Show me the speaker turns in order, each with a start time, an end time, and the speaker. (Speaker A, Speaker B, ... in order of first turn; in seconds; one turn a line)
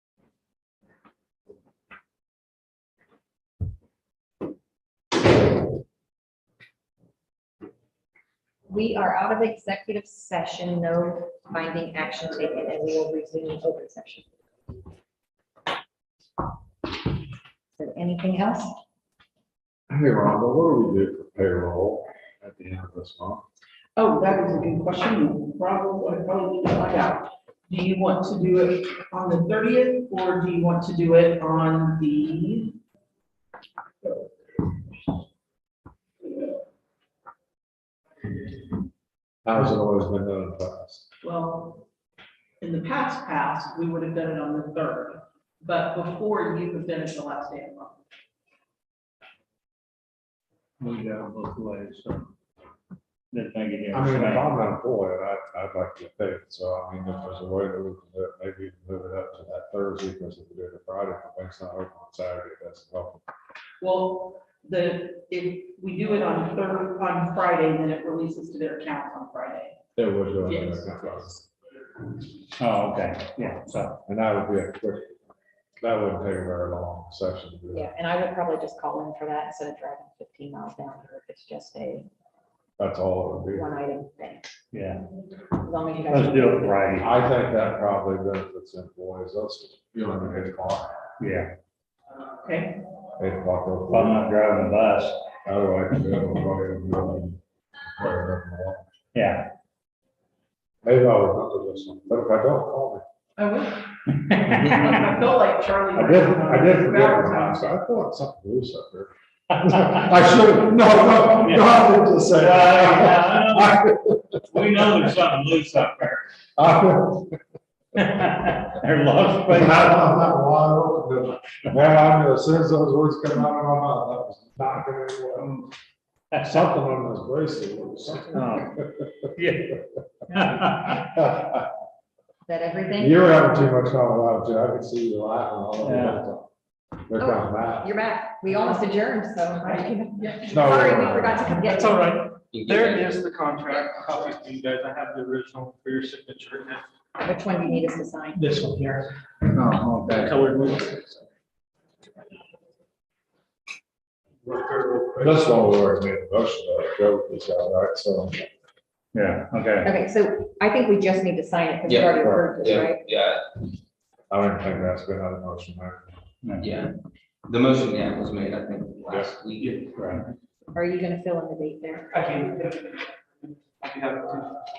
Speaker A: 8.7-14.3
Speaker A: 17.8-18.7
Speaker B: 19.9-23.4
Speaker C: 23.9-32.8
Speaker B: 39.4-41.0
Speaker C: 41.2-41.8
Speaker C: 42.6-48.0
Speaker D: 50.8-52.3
Speaker D: 53.3-54.5
Speaker B: 53.9-63.2
Speaker C: 63.8-69.8
Speaker B: 70.0-71.4
Speaker C: 70.4-71.2
Speaker D: 72.6-74.0
Speaker B: 74.0-75.1
Speaker B: 75.8-77.9
Speaker A: 77.7-82.1
Speaker B: 82.8-83.7
Speaker A: 83.5-84.5
Speaker D: 84.7-85.0
Speaker A: 85.6-86.8
Speaker D: 86.1-87.1
Speaker B: 87.0-90.9
Speaker D: 91.2-91.5
Speaker C: 92.4-92.8
Speaker B: 93.2-94.2
Speaker D: 93.9-95.2
Speaker B: 95.4-97.4
Speaker B: 98.0-98.8
Speaker D: 99.1-99.5
Speaker B: 100.8-103.0
Speaker C: 103.4-103.9
Speaker D: 104.3-105.1
Speaker C: 104.5-107.7
Speaker B: 105.9-114.8
Speaker D: 109.8-110.1
Speaker D: 111.4-113.9
Speaker D: 114.5-116.2
Speaker B: 116.6-117.4
Speaker D: 118.0-120.1
Speaker B: 119.5-125.6
Speaker B: 126.4-129.1
Speaker D: 128.3-128.8
Speaker D: 129.3-129.8
Speaker D: 130.3-131.1
Speaker B: 130.9-131.7
Speaker A: 132.4-133.6
Speaker B: 133.0-136.5
Speaker D: 135.8-136.2
Speaker B: 137.1-137.9
Speaker A: 137.2-142.0
Speaker C: 139.6-140.6
Speaker B: 140.5-141.5
Speaker E: 141.6-146.8
Speaker F: 142.5-143.2
Speaker A: 147.2-148.4
Speaker E: 148.3-149.1
Speaker D: 149.5-150.4
Speaker E: 150.1-151.1
Speaker E: 154.4-155.7
Speaker B: 155.2-158.4
Speaker D: 159.1-159.9
Speaker A: 159.8-163.1
Speaker F: 161.9-163.4
Speaker B: 162.2-162.5
Speaker B: 164.3-166.0
Speaker D: 166.4-166.7
Speaker F: 166.6-166.9
Speaker F: 167.4-169.9
Speaker D: 169.9-170.2
Speaker A: 170.7-172.1
Speaker E: 172.1-174.5